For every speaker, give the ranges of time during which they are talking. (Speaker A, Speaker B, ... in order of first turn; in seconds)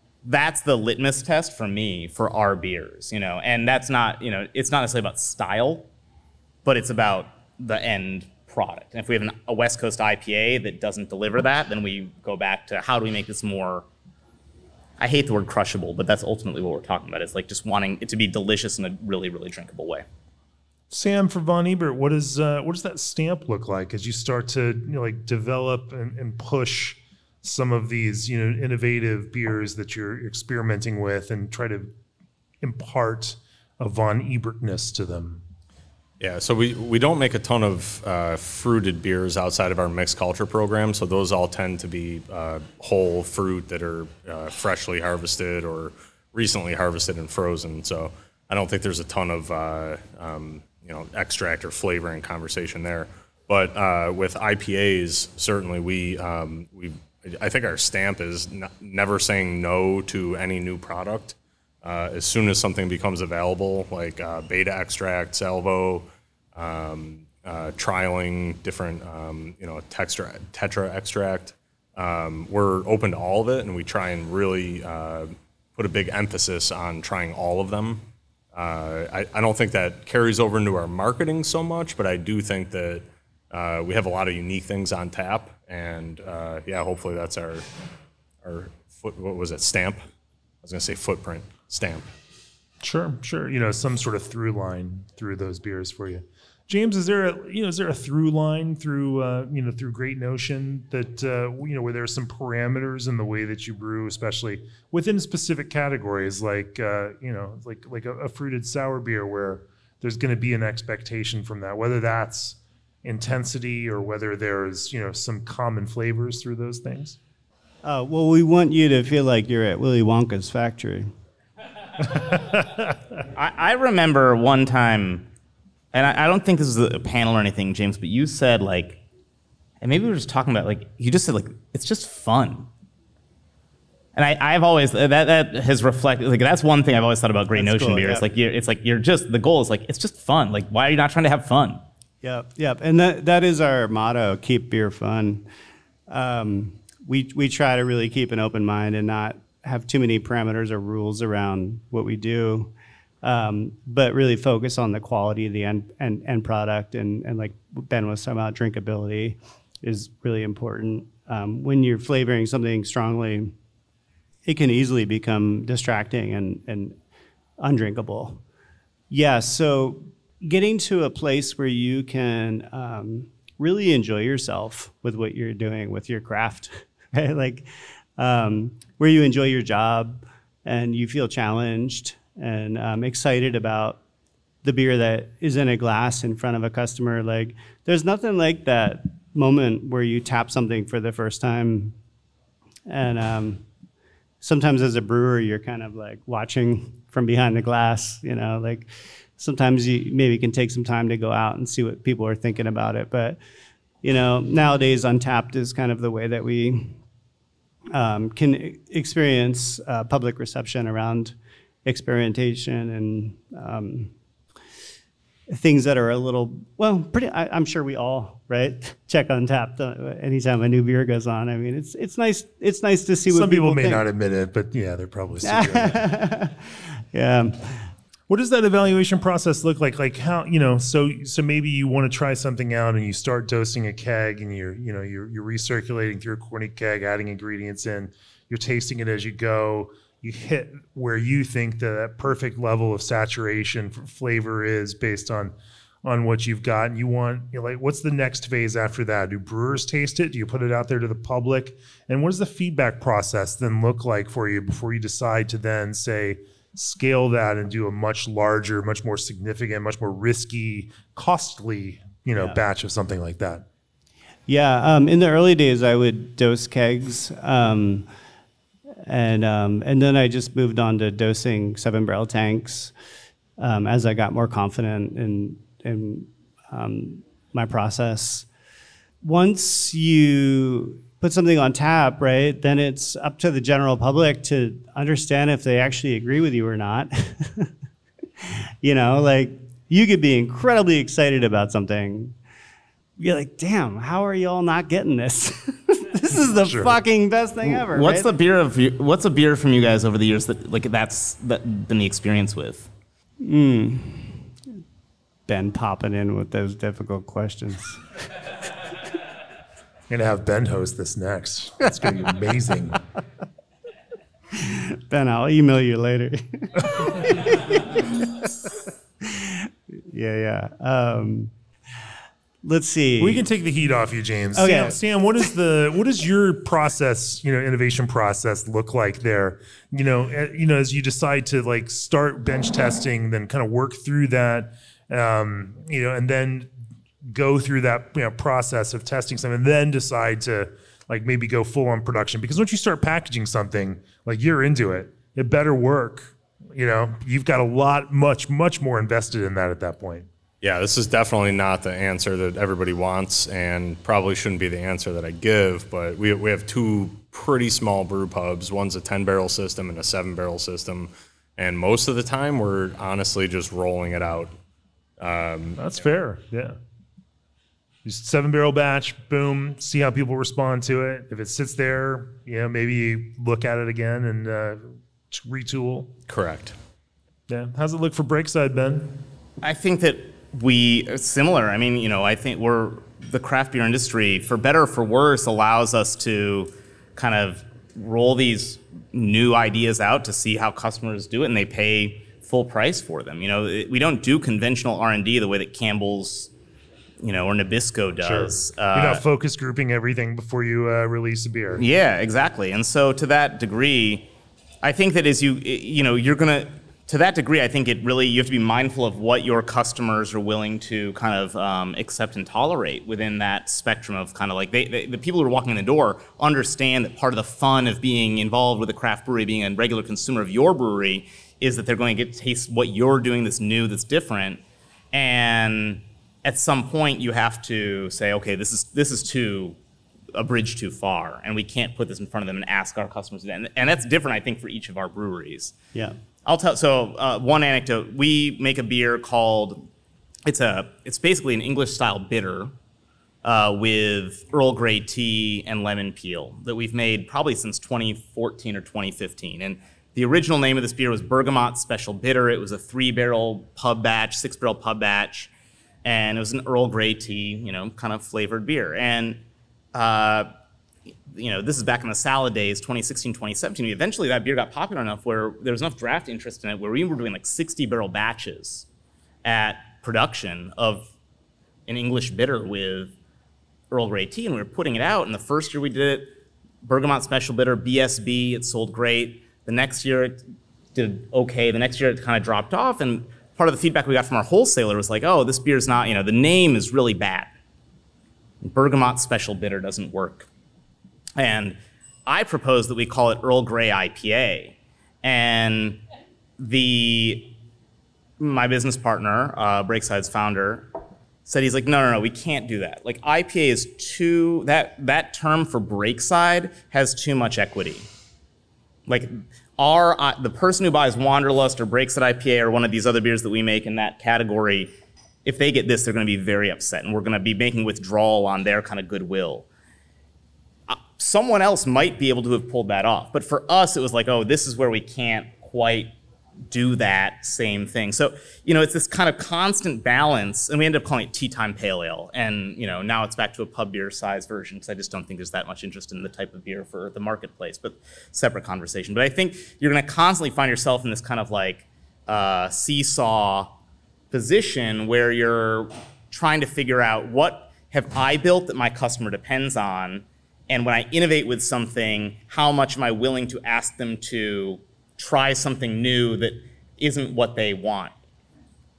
Speaker A: 0.2-5.9, 6.6-13.8, 15.0-20.0, 123.3-125.3, 125.9-129.0, 129.8-132.7, 134.1-141.8, 297.6-302.9, 379.6-396.5, 397.2-399.2, 401.8-404.3, 404.8-424.6, 425.1-429.8, 430.3-435.8, 436.4-439.9, 440.4-442.7, 443.4-455.5, 456.0-459.4, 459.9-460.5, 461.3-468.9, 469.4-471.1, 471.9-473.1, 473.9-480.4, 480.9-487.5, 488.6-490.5, 491.4-496.0, 496.6-497.6, 498.4-500.9, 501.4-508.1, 509.1-514.9, 515.4-519.7, 520.9-526.1, 526.7-543.7, 544.3-558.1
Speaker B: 20.9-31.9, 32.6-35.4, 92.8-117.2, 122.2-122.8, 223.3-226.1, 228.3-263.6, 296.6-296.9, 310.1-313.0, 323.2-336.7, 337.2-350.3, 365.8-366.8, 368.0-376.1, 377.5-379.2, 398.2-401.8
Speaker C: 36.2-87.6, 88.4-90.0, 90.6-92.0, 350.6-364.5, 365.2-365.8, 376.3-376.7
Speaker D: 117.8-121.1, 137.5-138.2, 142.2-145.4, 146.1-163.5, 164.4-167.0, 167.6-168.4, 169.1-184.0, 184.6-192.0, 192.9-193.6, 194.4-203.4, 204.0-207.0, 207.9-214.1, 215.5-224.0, 225.4-226.6, 227.1-227.9, 264.5-268.1, 269.0-272.9, 273.6-278.5, 279.2-287.7, 288.4-292.4, 293.2-298.3, 303.4-304.5, 305.5-308.0, 314.5-318.5, 319.2-321.5, 322.6-323.4, 324.6-325.0